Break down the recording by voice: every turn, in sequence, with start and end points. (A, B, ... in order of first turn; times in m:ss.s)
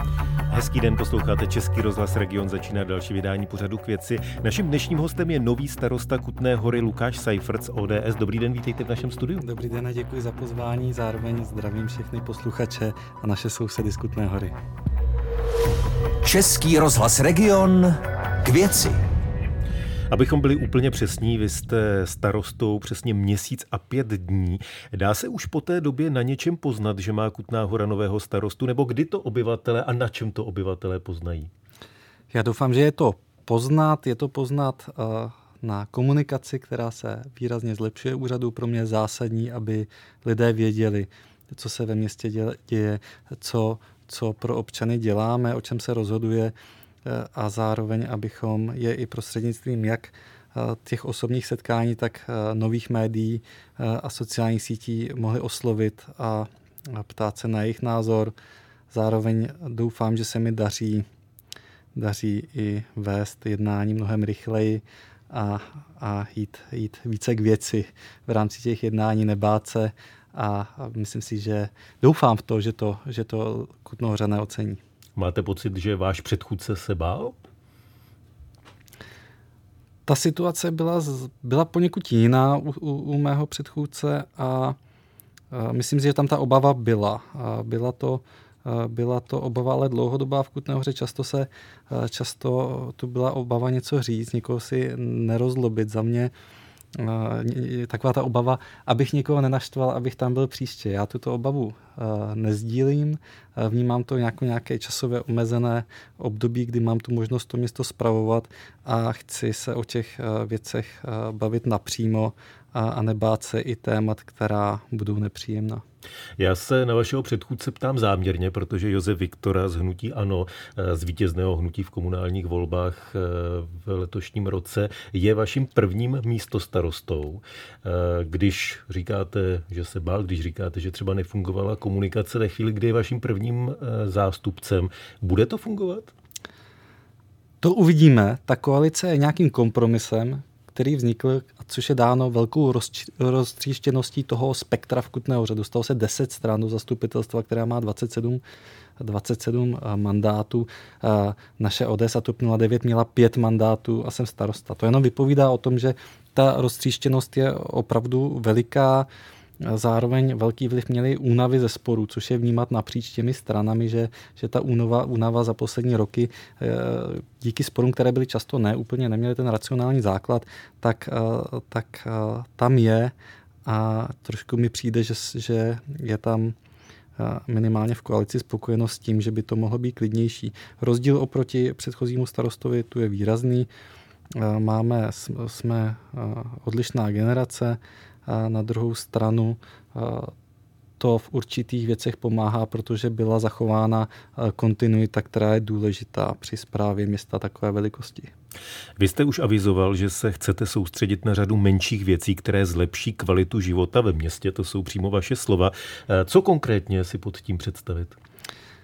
0:00.5-0:09.4 A
0:09.4-0:14.6 B
0:16.2-0:19.0 C
0:20.1-0:31.5 A
0:32.3-0:46.5 B
0:47.0-0:58.4 B
0:58.9-1:01.0 B
1:02.0-1:14.8 B
1:15.2-1:17.4 A
1:20.1-1:24.8 B
1:25.5-1:36.3 B
1:37.0-1:55.8 B
1:56.4-2:16.1 A
2:17.6-2:28.4 B
2:29.0-2:39.1 B
2:39.6-2:53.1 B
2:53.7-2:56.6 B
2:57.2-3:03.7 B
3:04.4-3:10.3 B
3:11.0-3:18.3 B
3:19.0-3:28.2 A